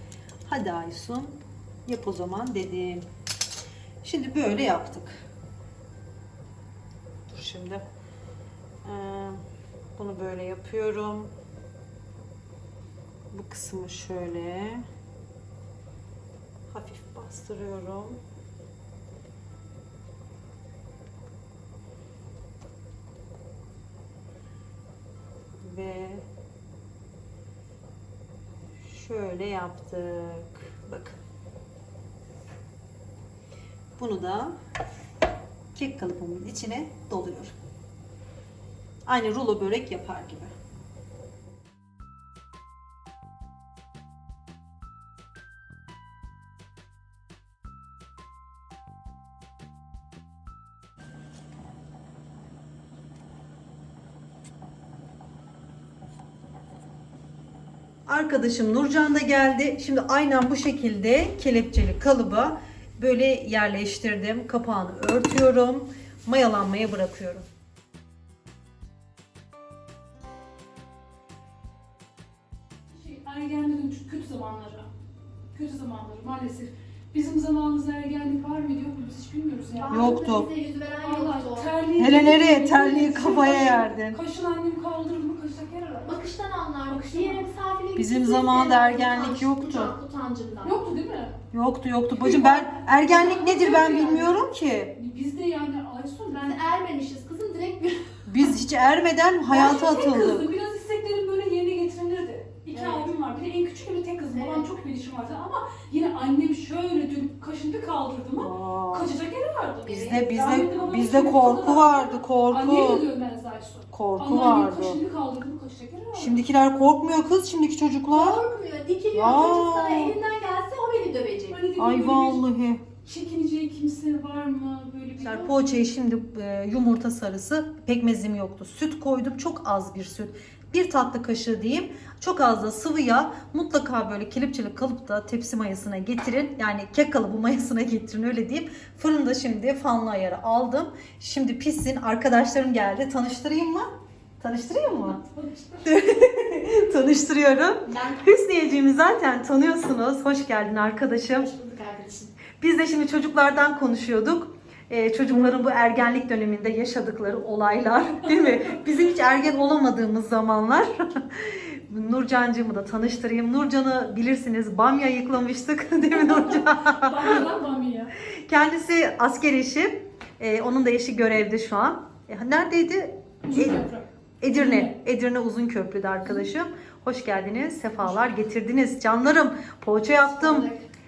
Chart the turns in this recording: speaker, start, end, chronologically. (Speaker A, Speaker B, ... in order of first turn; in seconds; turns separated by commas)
Speaker A: 0.5-3.0, Speaker A: 4.0-5.2, Speaker A: 7.3-7.8, Speaker A: 8.8-9.4, Speaker A: 10.0-11.3, Speaker A: 13.3-14.8, Speaker A: 16.7-18.2, Speaker A: 25.6-26.2, Speaker A: 28.8-31.2, Speaker A: 34.0-34.5, Speaker A: 35.7-37.5, Speaker A: 39.0-40.5, Speaker A: 58.1-67.5, Speaker B: 72.9-74.9, Speaker B: 75.5-80.2, Speaker C: 79.7-81.7, Speaker A: 79.9-80.5, Speaker B: 81.0-86.2, Speaker A: 82.0-84.2, Speaker C: 86.0-90.9, Speaker B: 86.9-87.5, Speaker A: 88.0-89.9, Speaker B: 90.6-91.4, Speaker A: 91.5-95.0, Speaker B: 92.1-94.3, Speaker B: 95.0-96.6, Speaker C: 96.3-98.2, Speaker A: 98.2-100.5, Speaker B: 99.5-116.3, Speaker A: 102.8-103.0, Speaker C: 104.3-104.7, Speaker A: 108.4-109.1, Speaker A: 109.8-113.0, Speaker A: 113.9-115.0, Speaker A: 116.1-118.4, Speaker C: 118.1-121.6, Speaker A: 119.1-120.2, Speaker B: 121.5-122.4, Speaker A: 121.8-122.8, Speaker B: 123.0-125.8, Speaker A: 125.2-145.2, Speaker B: 145.1-145.8, Speaker A: 145.8-151.5, Speaker C: 147.8-148.3, Speaker C: 151.3-152.3, Speaker A: 152.6-167.4, Speaker B: 158.4-158.7, Speaker B: 166.1-168.1, Speaker A: 168.3-173.9, Speaker B: 173.4-174.9, Speaker A: 174.4-180.7, Speaker C: 180.2-180.9